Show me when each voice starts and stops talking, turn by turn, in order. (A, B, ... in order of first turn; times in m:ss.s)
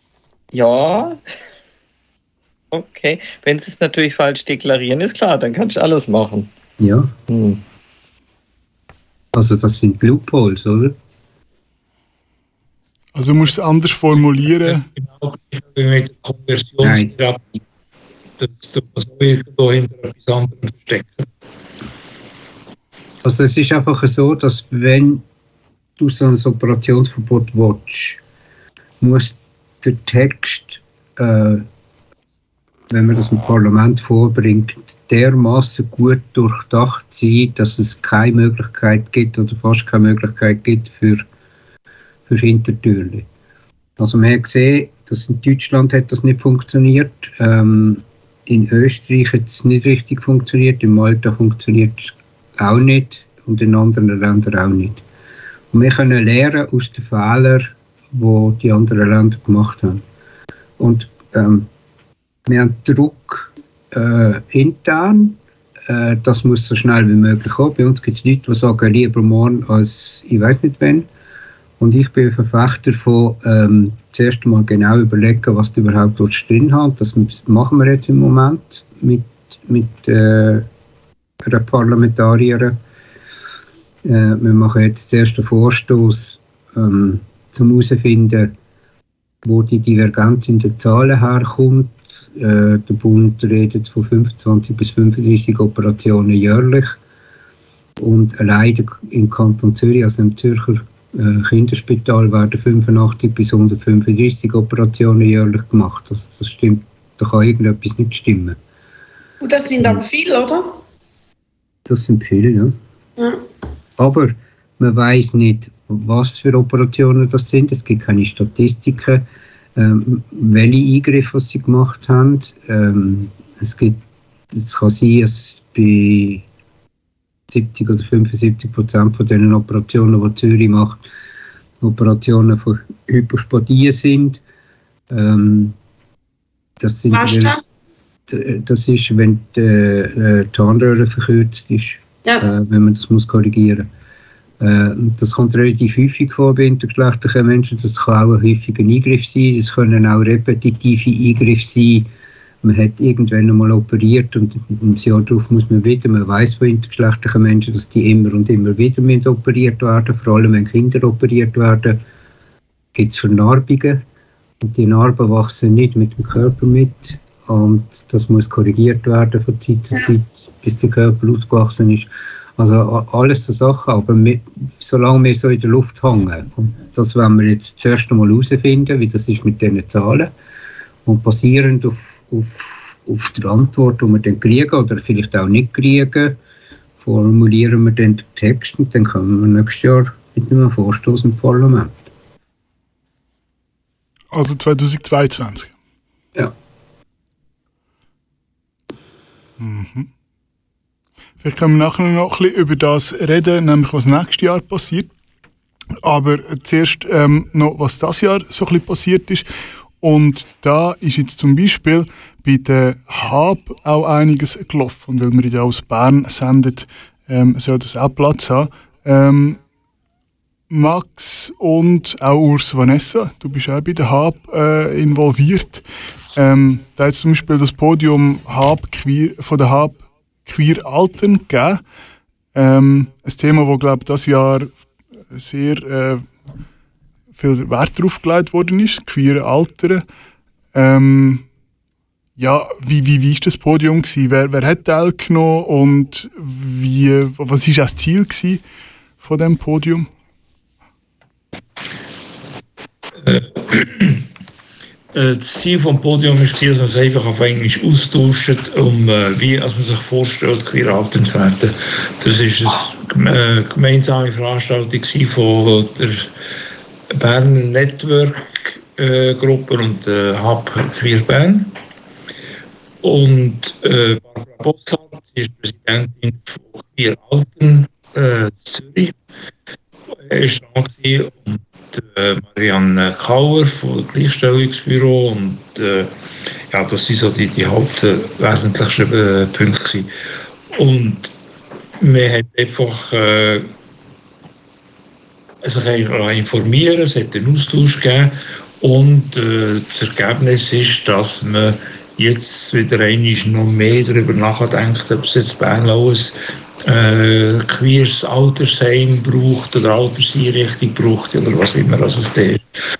0:00.5-0:01.2 A
0:02.7-0:06.5 A
0:06.8-0:07.1 B
0:07.3-0:07.6 A
0:09.4-0:11.0 B
0:13.2-0:14.8 C
0:14.6-0:17.6 D
0:16.8-0:17.1 B
0:18.4-0:21.3 D
0:23.2-0:25.2 B
0:26.0-0:28.2 B
0:29.0-0:31.6 B
0:32.9-0:41.2 B
0:42.3-0:43.3 B
0:44.0-0:55.0 B
0:55.7-1:00.0 B
1:00.8-1:01.7 B
1:02.5-1:11.1 B
1:11.8-1:20.7 B
1:21.4-1:22.8 B
1:24.0-1:28.5 B
1:29.4-1:37.0 B
1:38.0-1:48.6 B
1:49.4-1:50.7 E
1:51.9-1:52.7 B
1:53.2-1:53.4 E
1:54.0-1:59.2 B
1:59.8-2:04.0 B
2:04.5-2:06.4 B
2:07.5-2:11.0 B
2:11.8-2:14.4 B
2:15.1-2:15.8 B
2:16.8-2:17.6 B
2:17.1-2:17.6 E
2:18.3-2:23.9 B
2:24.6-2:32.1 B
2:32.6-2:42.0 B
2:43.0-2:44.0 B
2:44.6-3:00.3 B
3:01.0-3:06.4 B
3:07.0-3:12.0 B
3:14.3-3:15.7 C
3:19.6-3:20.1 C
3:21.4-3:25.1 C
3:26.0-3:29.4 C
3:30.0-3:39.6 C
3:40.7-3:45.8 C
3:46.4-3:51.8 C
3:52.6-3:54.7 C
3:55.3-3:56.3 C
3:57.4-4:00.0 C
4:00.7-4:01.4 C
4:02.4-4:08.6 C
4:09.2-4:10.1 C
4:13.2-4:14.3 D
4:15.1-4:26.3 D
4:27.1-4:31.8 D
4:33.0-4:39.2 D
4:40.2-4:46.1 D
4:46.7-4:50.1 D
4:50.7-4:51.3 D
4:52.0-4:53.7 D
4:55.6-5:12.7 D